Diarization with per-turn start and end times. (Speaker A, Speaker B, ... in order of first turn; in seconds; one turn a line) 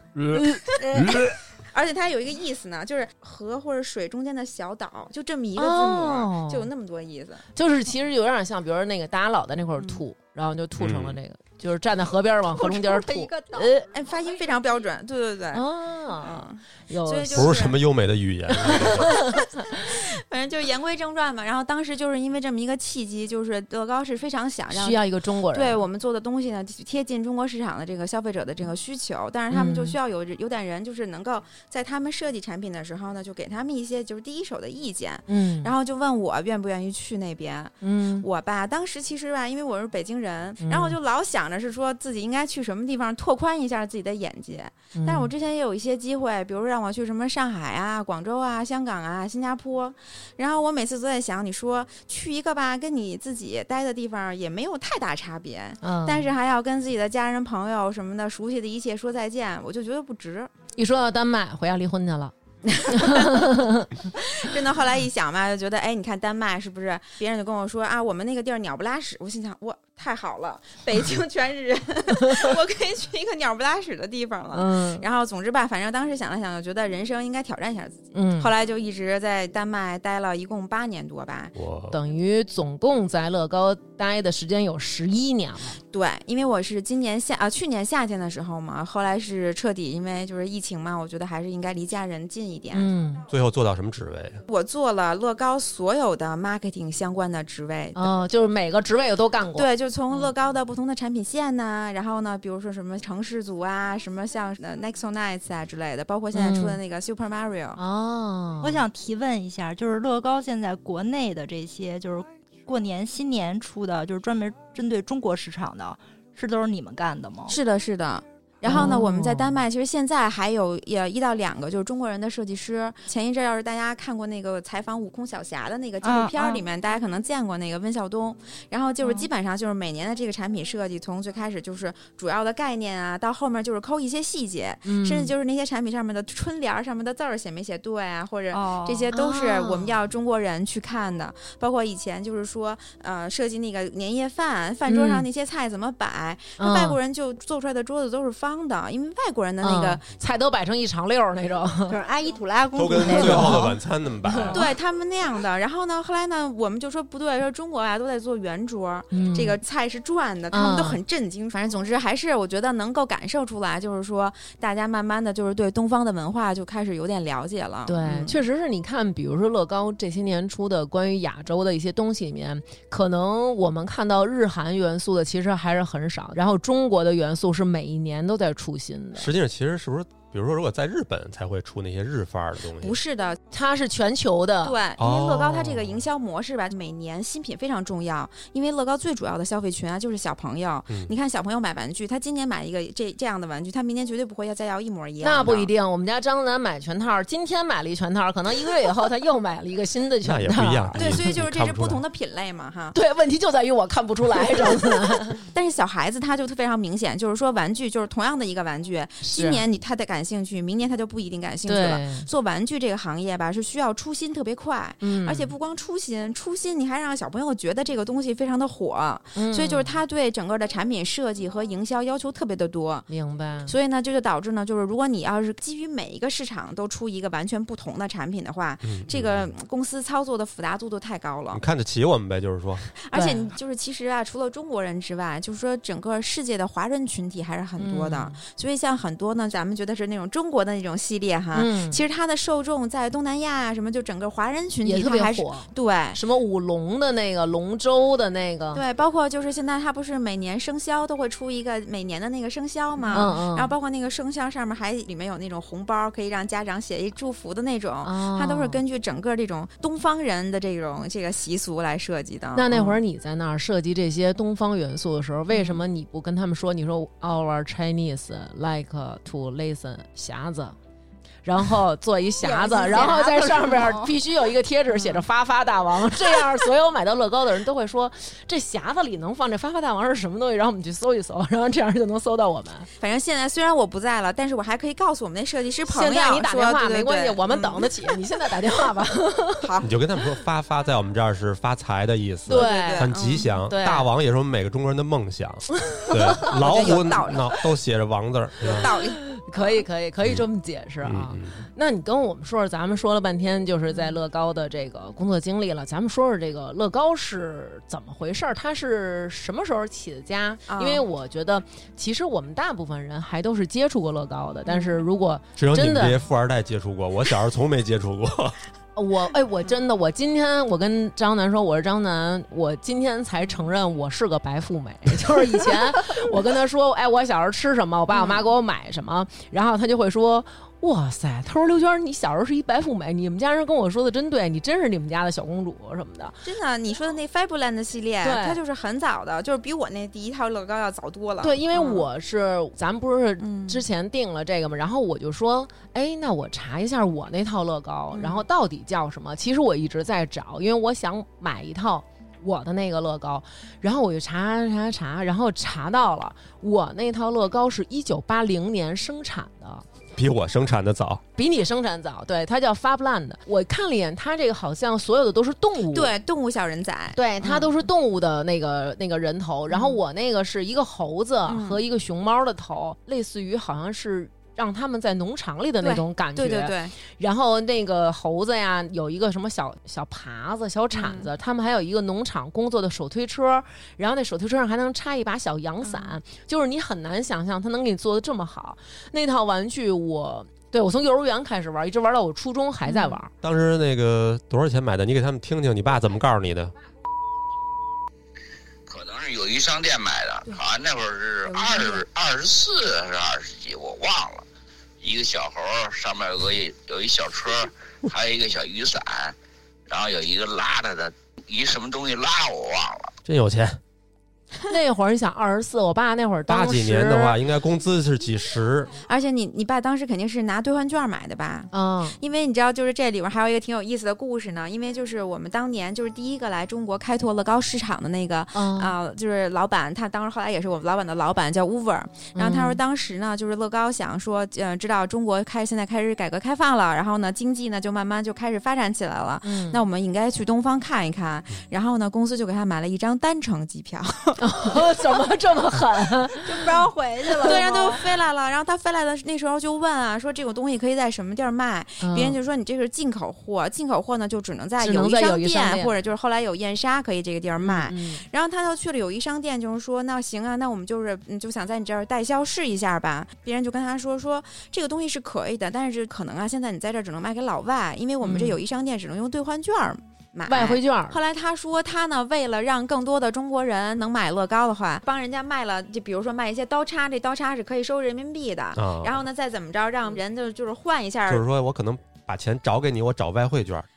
Speaker A: 0.1-1.4
Speaker B: 0.4-0.6
Speaker C: 0.5-7.4
Speaker B: 5.6-6.7
Speaker B: 7.6-13.9
Speaker A: 10.8-11.2
Speaker D: 12.5-13.7
Speaker C: 13.9-15.7
Speaker B: 15.5-17.6
Speaker C: 16.2-17.8
Speaker A: 17.3-19.1
Speaker C: 18.7-60.5
Speaker B: 18.8-19.8
Speaker B: 24.7-25.8
Speaker B: 29.5-30.0
Speaker B: 35.3-35.7
Speaker B: 37.8-38.3
Speaker B: 40.6-41.0
Speaker B: 45.0-45.3
Speaker B: 55.8-56.3
Speaker B: 60.8-62.3
Speaker C: 62.6-63.6
Speaker B: 62.9-63.9
Speaker C: 64.1-81.5
Speaker B: 74.5-75.0
Speaker B: 78.1-78.5
Speaker A: 81.5-82.0
Speaker B: 81.9-85.8
Speaker C: 85.9-92.9
Speaker B: 92.7-93.2
Speaker A: 93.3-94.4
Speaker C: 94.5-98.1
Speaker B: 98.0-100.3
Speaker C: 99.5-107.8
Speaker B: 106.3-106.8
Speaker B: 107.8-108.8
Speaker D: 108.6-117.5
Speaker C: 117.5-150.1
Speaker B: 118.7-119.5
Speaker D: 118.7-119.0
Speaker D: 126.0-126.7
Speaker D: 129.0-129.3
Speaker B: 134.9-135.3
Speaker D: 138.5-139.1
Speaker B: 139.1-139.9
Speaker B: 144.9-145.3
Speaker B: 146.6-147.0
Speaker B: 149.6-152.0
Speaker D: 151.9-153.7
Speaker A: 152.8-154.7
Speaker B: 153.1-153.7
Speaker B: 154.2-154.6
Speaker C: 154.5-168.4
Speaker B: 159.1-159.6
Speaker B: 160.5-161.0
Speaker B: 167.9-179.3
Speaker A: 179.2-183.0
Speaker C: 182.8-183.4
Speaker B: 183.5-184.8
Speaker C: 184.6-195.7
Speaker A: 185.0-186.0
Speaker B: 195.2-201.2
Speaker A: 200.2-202.0
Speaker C: 201.0-203.0
Speaker B: 202.9-205.4
Speaker C: 205.4-223.1
Speaker B: 209.2-209.6
Speaker B: 211.7-212.3
Speaker B: 215.0-215.5
Speaker B: 219.3-219.9
Speaker B: 223.1-223.7
Speaker C: 223.7-231.6
Speaker A: 228.8-229.5
Speaker A: 231.5-232.9
Speaker C: 233.0-246.2
Speaker B: 233.1-233.5
Speaker B: 237.8-238.4
Speaker B: 241.5-242.0
Speaker B: 244.8-248.8
Speaker C: 248.7-263.0
Speaker B: 253.1-253.7
Speaker B: 258.0-258.8
Speaker B: 262.6-270.8
Speaker C: 265.5-265.8
Speaker B: 271.4-282.9
Speaker D: 272.4-274.1
Speaker C: 272.5-273.2
Speaker C: 274.9-275.2
Speaker C: 283.0-288.1
Speaker B: 285.9-289.7
Speaker C: 289.6-289.9
Speaker A: 289.8-298.9
Speaker B: 292.5-293.1
Speaker C: 292.5-293.5
Speaker B: 293.7-294.1
Speaker B: 295.9-296.5
Speaker C: 296.4-297.6
Speaker C: 298.6-299.9
Speaker B: 299.2-316.2
Speaker A: 301.0-301.6
Speaker C: 310.7-311.0
Speaker C: 314.7-315.0
Speaker A: 315.6-318.6
Speaker B: 319.0-336.4
Speaker C: 328.1-328.5
Speaker C: 336.4-342.1
Speaker B: 338.2-338.6
Speaker B: 341.4-359.8
Speaker C: 343.4-343.9
Speaker C: 348.1-348.4
Speaker A: 360.1-361.2
Speaker B: 361.4-366.1
Speaker C: 365.9-367.7
Speaker B: 367.1-393.3
Speaker C: 369.7-370.0
Speaker C: 371.5-371.8
Speaker C: 375.8-376.9
Speaker C: 380.9-381.3
Speaker C: 385.8-386.1
Speaker C: 392.9-393.2
Speaker A: 393.4-396.7
Speaker E: 398.9-404.4
Speaker C: 401.5-402.0
Speaker E: 405.0-409.4
Speaker E: 409.9-413.1
Speaker A: 413.2-413.8
Speaker B: 414.7-417.4
Speaker A: 416.5-418.9
Speaker C: 419.0-444.8
Speaker B: 421.7-422.2
Speaker B: 428.6-428.9
Speaker B: 432.4-432.8
Speaker B: 439.4-439.8
Speaker B: 444.4-446.5
Speaker D: 446.4-448.0
Speaker C: 447.4-481.4
Speaker B: 452.0-452.4
Speaker B: 454.8-455.9
Speaker B: 457.6-458.2
Speaker B: 468.2-468.6
Speaker B: 470.5-471.2
Speaker A: 478.8-479.1
Speaker A: 481.3-483.9